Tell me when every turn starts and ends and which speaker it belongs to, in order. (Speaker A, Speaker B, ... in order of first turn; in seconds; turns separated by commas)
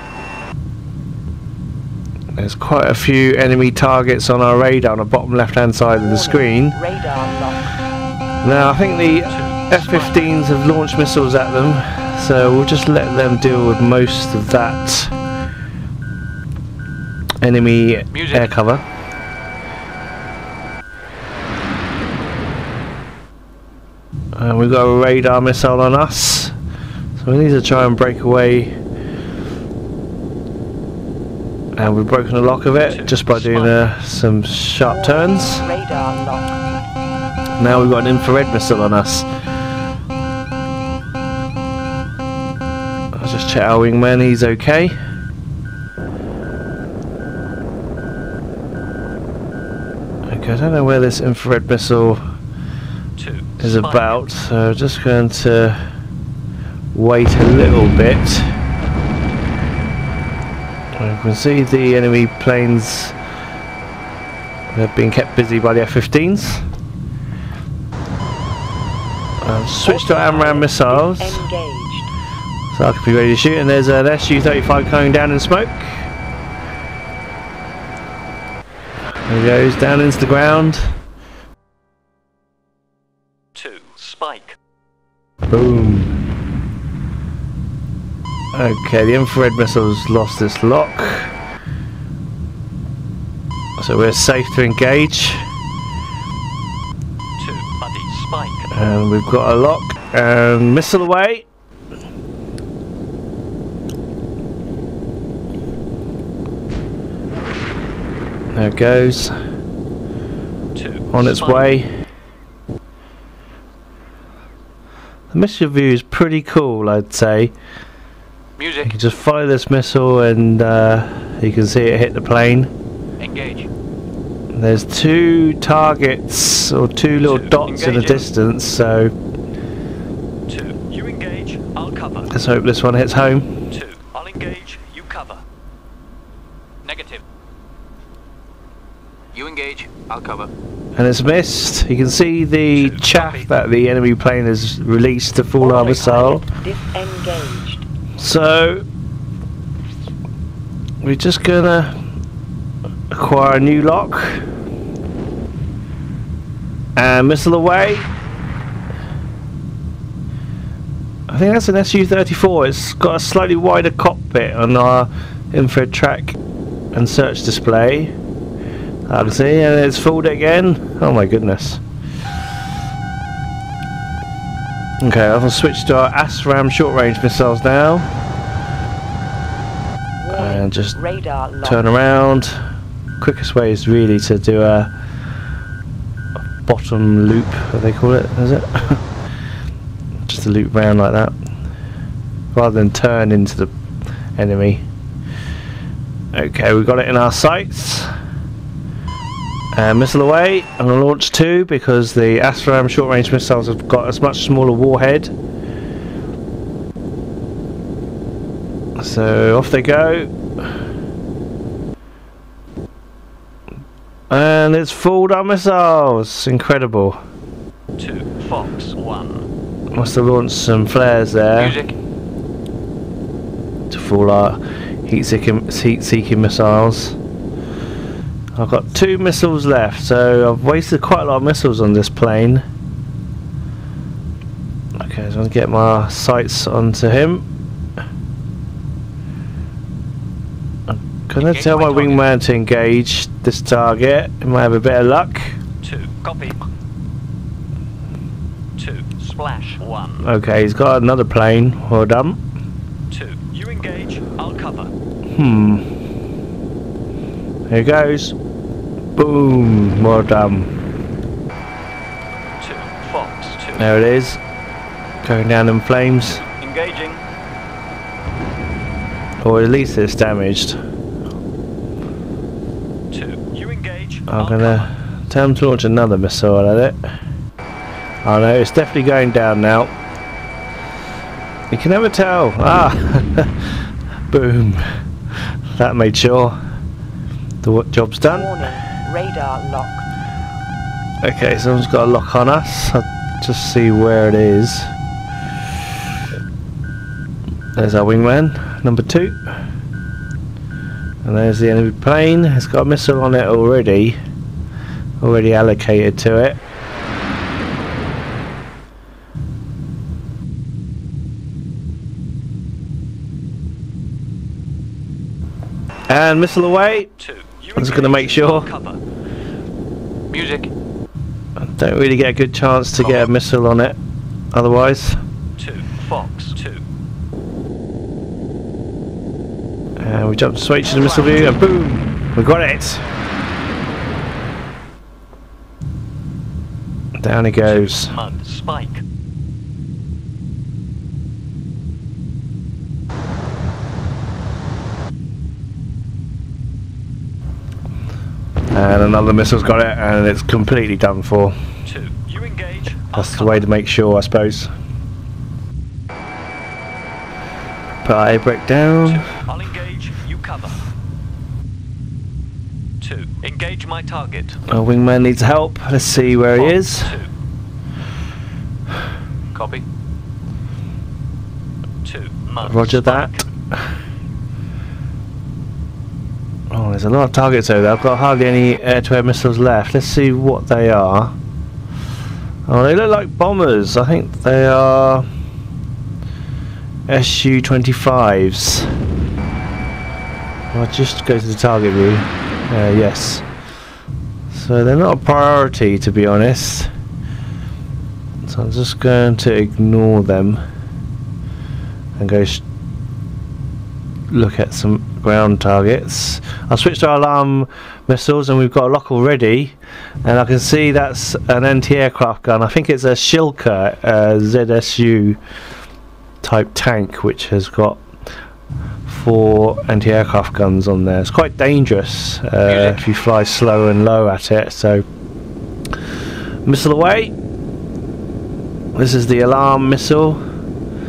Speaker A: 2.3-6.8, Speaker B: 6.0-7.8, Speaker A: 8.4-15.1, Speaker C: 9.2-10.4, Speaker A: 17.4-18.8, Speaker D: 18.1-18.5, Speaker A: 24.4-26.5, Speaker A: 27.2-28.7, Speaker A: 31.8-35.6, Speaker C: 32.8-33.9, Speaker B: 34.8-36.6, Speaker A: 37.6-39.3, Speaker A: 43.1-45.0, Speaker A: 50.2-52.2, Speaker C: 53.2-54.2, Speaker A: 53.6-55.8, Speaker A: 56.9-58.5, Speaker A: 60.9-63.1, Speaker A: 64.7-66.6, Speaker A: 69.4-71.4, Speaker B: 69.8-72.1, Speaker A: 72.7-76.0, Speaker A: 79.3-80.8, Speaker C: 83.5-84.5, Speaker A: 85.5-86.2, Speaker A: 88.5-91.3, Speaker A: 93.8-95.4, Speaker C: 97.4-98.7, Speaker A: 98.7-101.5, Speaker A: 108.5-109.3, Speaker C: 110.7-111.8, Speaker A: 111.1-111.9, Speaker A: 115.3-117.5, Speaker D: 118.6-118.9, Speaker A: 118.8-122.7, Speaker D: 123.2-123.7, Speaker A: 124.5-129.1, Speaker C: 127.2-128.3, Speaker C: 130.5-132.3, Speaker A: 132.3-133.5, Speaker C: 133.7-135.4, Speaker D: 136.8-137.2, Speaker D: 139.3-140.5, Speaker A: 140.9-146.4, Speaker C: 142.8-143.4, Speaker B: 145.6-147.8, Speaker A: 148.2-148.8, Speaker A: 151.0-151.9, Speaker A: 153.1-154.4, Speaker A: 156.9-158.1, Speaker A: 161.3-166.4, Speaker A: 166.9-168.1, Speaker A: 169.1-171.8, Speaker A: 175.0-178.1, Speaker B: 180.2-181.9, Speaker A: 180.3-181.0, Speaker A: 181.6-182.6, Speaker A: 183.2-184.9, Speaker A: 186.6-189.1, Speaker A: 190.2-191.3, Speaker A: 192.5-193.7, Speaker A: 194.3-194.8, Speaker A: 196.3-198.1, Speaker A: 199.7-205.3, Speaker A: 208.9-210.3, Speaker A: 214.3-217.2, Speaker C: 218.0-219.4, Speaker A: 219.9-221.8, Speaker D: 221.6-221.9, Speaker A: 223.9-227.2, Speaker A: 228.6-232.6, Speaker A: 234.9-237.4, Speaker A: 240.9-245.6, Speaker D: 241.4-242.2, Speaker C: 245.8-246.6, Speaker C: 248.8-250.2, Speaker A: 250.2-252.4, Speaker C: 253.1-254.9, Speaker A: 255.3-255.8, Speaker A: 257.7-258.4, Speaker A: 259.1-260.7, Speaker C: 262.6-263.8, Speaker A: 263.7-264.4, Speaker A: 265.2-266.4, Speaker C: 266.4-267.2, Speaker A: 269.4-270.8, Speaker C: 273.1-274.9, Speaker A: 274.3-277.1, Speaker A: 278.2-279.9, Speaker A: 281.7-283.8, Speaker A: 284.3-284.9, Speaker A: 285.7-286.6, Speaker A: 287.6-288.5, Speaker B: 288.2-290.1, Speaker A: 291.2-294.9, Speaker A: 297.8-299.4, Speaker A: 301.2-304.2, Speaker A: 305.2-306.6, Speaker A: 316.1-317.1, Speaker C: 317.2-319.0, Speaker A: 317.7-318.7, Speaker D: 320.3-320.7, Speaker A: 321.6-324.0, Speaker A: 324.5-325.2, Speaker C: 325.6-326.8, Speaker A: 330.0-333.0, Speaker A: 337.2-338.1, Speaker C: 337.6-339.0, Speaker A: 348.7-351.6, Speaker C: 351.8-353.6, Speaker A: 353.1-354.7, Speaker A: 358.0-359.3, Speaker C: 359.1-360.8, Speaker C: 363.0-364.6, Speaker A: 364.7-367.2, Speaker C: 366.5-367.3, Speaker D: 369.5-369.8, Speaker C: 372.0-373.4, Speaker A: 372.6-373.8, Speaker A: 376.7-381.3, Speaker A: 382.6-385.2, Speaker A: 387.1-388.9, Speaker A: 390.7-393.4, Speaker A: 394.5-396.9, Speaker A: 398.4-400.6, Speaker A: 402.2-402.6, Speaker A: 404.3-415.4, Speaker A: 416.4-418.0, Speaker A: 419.1-425.0, Speaker D: 422.7-423.0, Speaker A: 426.6-427.3, Speaker A: 428.9-430.4